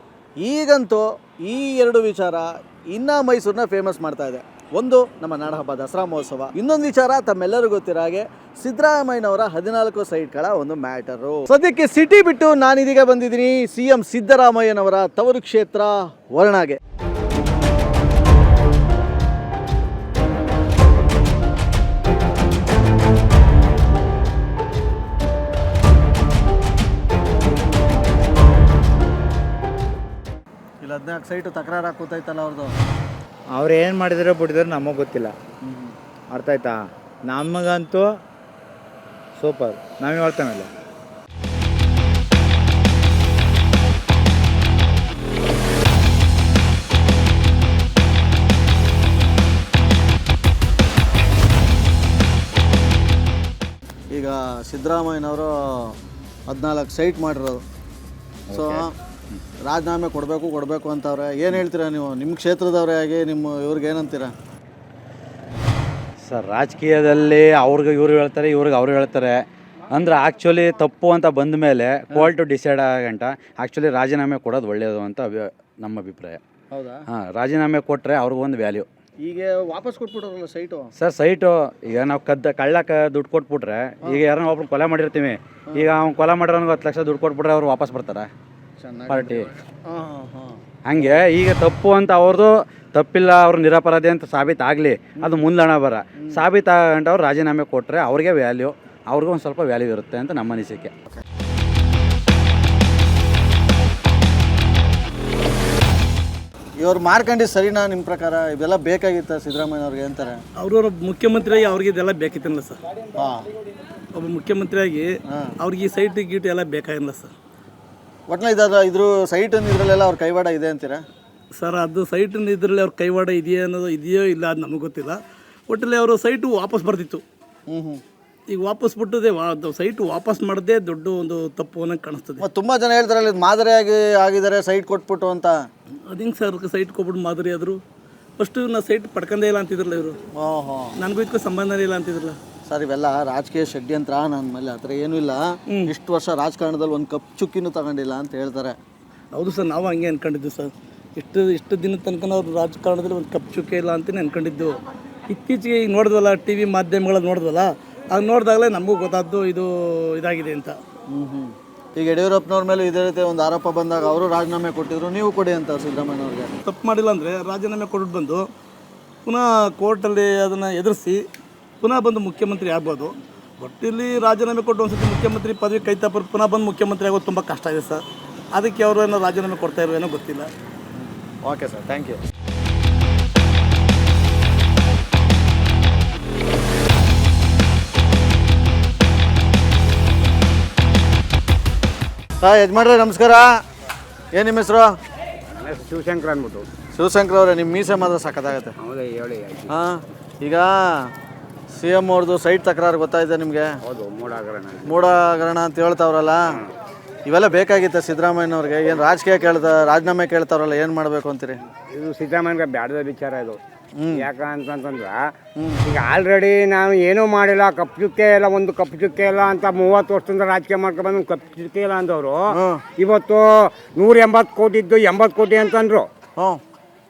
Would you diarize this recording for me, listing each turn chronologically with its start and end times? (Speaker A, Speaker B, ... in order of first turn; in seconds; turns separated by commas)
Speaker A: 0.4-16.8, Speaker A: 30.8-32.7, Speaker B: 33.5-35.3, Speaker A: 35.6-35.9, Speaker B: 36.3-38.2, Speaker B: 39.4-40.7, Speaker A: 54.1-56.0, Speaker A: 56.5-57.6, Speaker C: 58.5-59.4, Speaker A: 58.5-58.9, Speaker A: 59.7-64.3, Speaker C: 66.3-69.3, Speaker C: 69.9-76.4, Speaker A: 76.7-77.0, Speaker C: 77.1-78.9, Speaker A: 79.2-80.9, Speaker C: 81.0-88.3, Speaker A: 88.8-90.6, Speaker C: 89.1-89.5, Speaker C: 90.9-100.9, Speaker A: 106.8-110.4, Speaker D: 110.6-112.8, Speaker A: 113.2-113.5, Speaker D: 114.2-115.1, Speaker D: 115.6-117.3, Speaker A: 118.3-121.0, Speaker D: 121.6-125.2, Speaker D: 125.7-127.2, Speaker A: 127.7-128.0, Speaker D: 128.5-132.4, Speaker A: 132.4-135.5, Speaker D: 136.1-137.8, Speaker D: 138.4-140.2, Speaker A: 140.3-140.9, Speaker D: 141.0-142.4, Speaker A: 142.7-148.8, Speaker D: 149.3-154.8, Speaker D: 155.3-160.8, Speaker A: 161.1-166.5, Speaker D: 166.6-168.5, Speaker D: 169.3-171.2, Speaker D: 171.8-180.5, Speaker A: 181.0-182.2, Speaker A: 192.4-193.4, Speaker A: 194.3-194.9, Speaker E: 195.6-196.7, Speaker A: 196.9-198.7, Speaker E: 198.8-199.7, Speaker A: 199.7-201.1, Speaker A: 201.8-203.7, Speaker E: 203.9-205.1, Speaker A: 204.8-206.6, Speaker A: 207.3-211.6, Speaker E: 211.9-213.6, Speaker A: 214.0-214.3, Speaker E: 214.2-215.2, Speaker A: 215.6-215.8, Speaker E: 215.9-226.1, Speaker A: 222.5-222.8